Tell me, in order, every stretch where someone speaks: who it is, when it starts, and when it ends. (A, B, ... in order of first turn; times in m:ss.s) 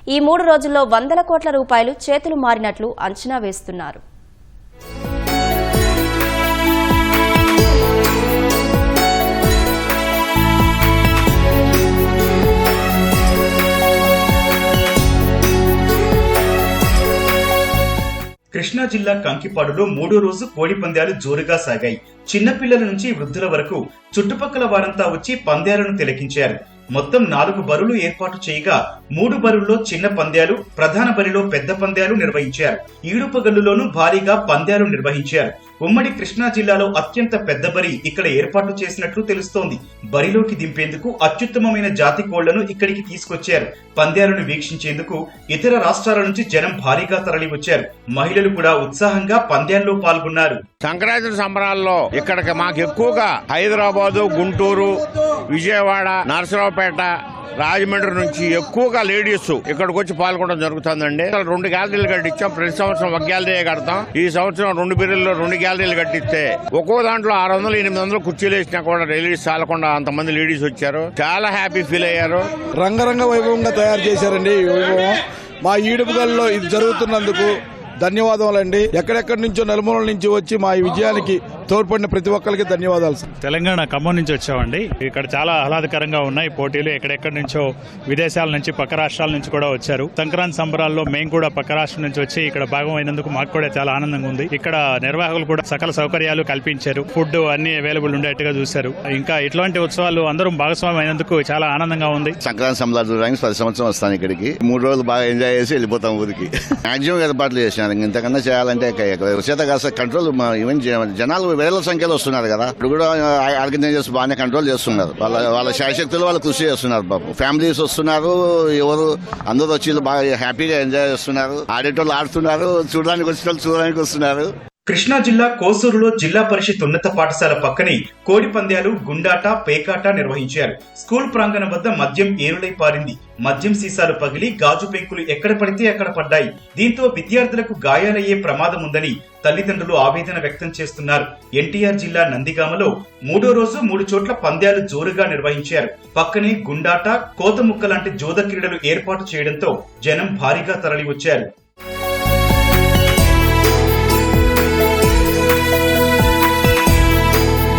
0:00.1-0:04.0 A
0:18.5-0:50.6 B
0:50.8-1:12.5 C
1:12.8-1:23.3 D
1:23.4-1:42.4 E
1:42.4-2:04.5 F
2:04.9-2:31.5 B